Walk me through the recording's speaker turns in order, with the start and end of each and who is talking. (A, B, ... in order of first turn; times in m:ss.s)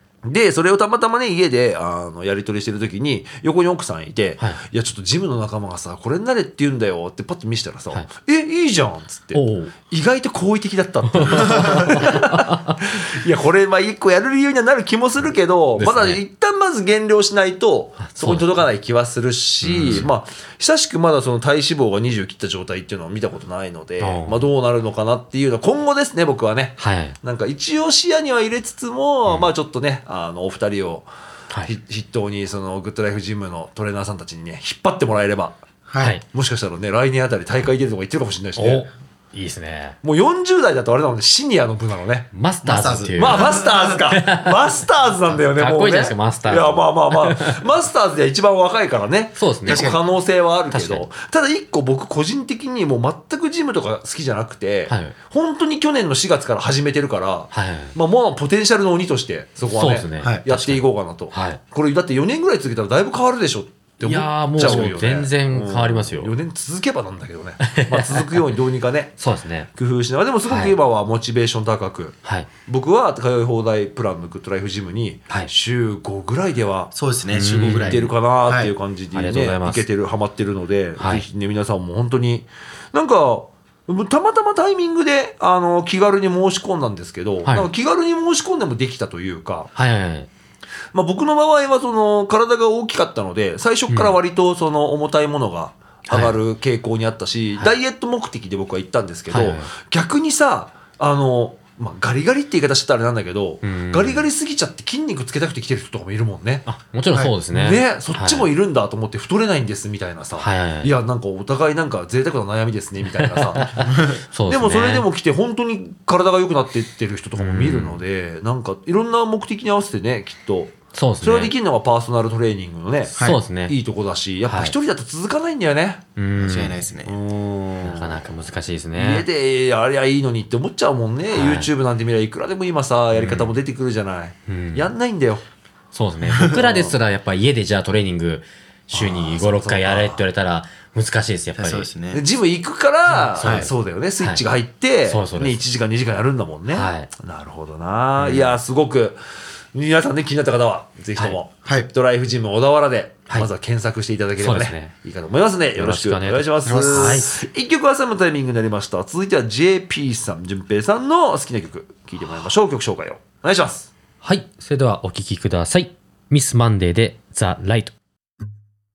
0:00.2-0:31.1 A
0:09.3-0:09.7 B
0:11.1-0:13.0 B
0:15.8-0:16.2 B
0:18.0-0:18.5 B
0:19.6-0:20.1 B
0:24.0-0:24.4 B
0:26.8-0:27.2 B
0:31.6-0:35.6 A
0:35.9-0:36.2 C
0:36.0-0:36.2 B
0:36.3-0:38.9 A
0:38.6-0:40.0 B
0:40.0-0:42.3 A
0:42.3-0:44.7 B
0:42.6-0:44.0 C
0:43.2-1:09.2 A
0:45.3-0:47.7 B
0:49.4-0:50.0 B
0:49.7-0:50.0 C
0:50.7-0:51.1 B
0:54.9-0:55.2 B
0:57.5-0:58.0 B
0:59.7-1:01.6 B
1:00.2-1:00.4 C
1:04.0-1:06.3 B
1:07.6-1:08.6 B
1:09.2-1:09.7 B
1:09.8-1:16.9 A
1:10.5-1:10.8 B
1:16.9-1:18.8 C
1:17.3-1:18.1 B
1:17.5-1:29.7 A
1:19.1-1:19.8 B
1:21.0-1:21.2 B
1:29.8-1:30.3 B
1:30.9-1:46.6 A
1:33.9-1:34.2 B
1:36.1-1:36.4 B
1:39.3-1:39.7 B
1:43.6-1:44.3 B
1:46.7-1:48.5 B
1:47.5-1:53.9 A
1:50.4-1:50.9 B
1:53.2-1:55.1 B
1:53.9-1:54.2 C
1:54.5-2:03.2 A
1:57.4-1:58.0 B
2:00.9-2:01.5 B
2:03.1-2:03.8 B
2:03.7-2:06.0 A
2:04.5-2:04.8 B
2:06.2-2:06.8 B
2:06.4-2:07.2 C
2:07.0-2:08.3 A
2:07.8-2:09.3 B
2:09.0-2:15.4 A
2:11.3-2:11.7 B
2:13.1-2:13.6 B
2:14.5-2:14.9 B
2:15.9-2:21.9 B
2:16.2-2:16.8 C
2:18.9-2:20.2 A
2:21.6-2:22.2 C
2:22.1-2:29.2 A
2:23.1-2:24.4 B
2:23.4-2:23.7 C
2:25.0-2:25.6 B
2:26.7-2:27.1 B
2:28.2-2:28.6 B
2:29.7-2:43.9 A
2:34.4-2:34.9 B
2:35.8-2:37.4 B
2:36.6-2:37.4 C
2:44.2-2:47.9 B